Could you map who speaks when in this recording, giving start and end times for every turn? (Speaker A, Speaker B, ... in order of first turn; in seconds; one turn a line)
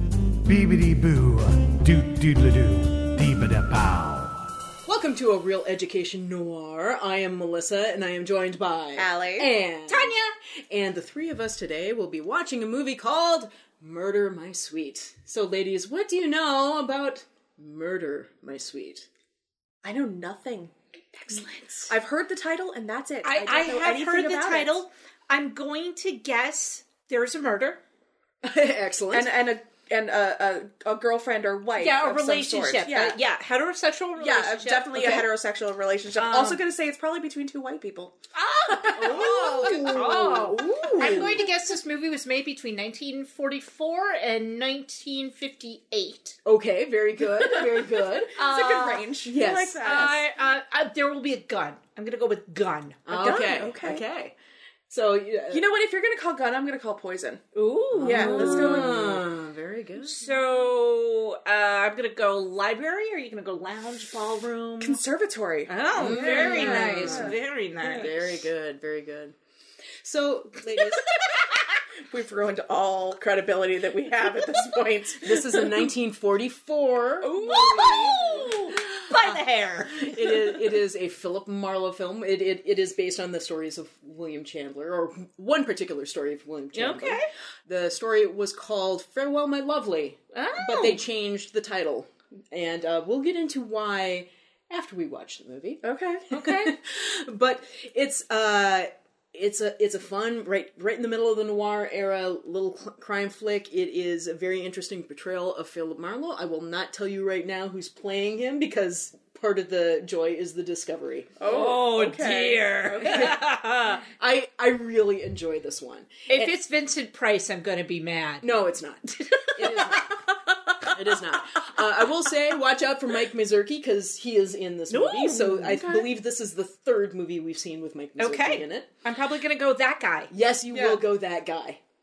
Speaker A: 0.4-4.5
Speaker B: 4.8-10.2
Speaker C: 8.9-9.5
Speaker D: 9.9-10.3
Speaker B: 10.7-19.1
Speaker C: 19.8-24.8
Speaker D: 21.3-21.9
Speaker D: 23.2-27.8
Speaker B: 28.4-29.3
Speaker C: 29.1-33.2
Speaker D: 31.8-35.2
Speaker C: 34.2-38.2
Speaker D: 36.2-36.6
Speaker B: 36.3-36.5
Speaker D: 38.3-46.4
Speaker C: 38.7-40.3
Speaker B: 38.9-41.4
Speaker C: 40.9-41.4
Speaker B: 46.4-48.4
Speaker C: 47.4-47.7
Speaker C: 48.3-50.2
Speaker D: 48.4-49.1
Speaker B: 49.2-49.8
Speaker D: 49.8-53.0
Speaker B: 53.0-54.3
Speaker C: 53.1-54.0
Speaker B: 54.9-55.7
Speaker C: 55.5-57.4
Speaker D: 57.5-59.1
Speaker B: 57.9-60.2
Speaker C: 58.0-59.2
Speaker D: 60.0-65.0
Speaker C: 64.8-68.1
Speaker D: 65.7-68.1
Speaker B: 66.0-67.4
Speaker B: 68.0-69.3
Speaker B: 70.0-71.0
Speaker D: 70.8-71.6
Speaker C: 72.0-75.9
Speaker B: 74.4-111.5
Speaker C: 77.2-78.5
Speaker D: 77.4-80.7
Speaker D: 86.7-87.3
Speaker D: 90.3-91.0
Speaker C: 95.8-96.2
Speaker D: 96.3-96.7
Speaker C: 111.4-113.4
Speaker D: 111.4-114.0
Speaker B: 113.0-113.4
Speaker B: 114.1-116.5
Speaker D: 116.3-118.5
Speaker B: 118.4-120.2
Speaker D: 119.1-122.0
Speaker B: 120.8-128.9
Speaker D: 124.9-125.9
Speaker C: 125.7-126.0
Speaker D: 128.2-130.3
Speaker B: 130.3-131.8
Speaker C: 130.7-131.0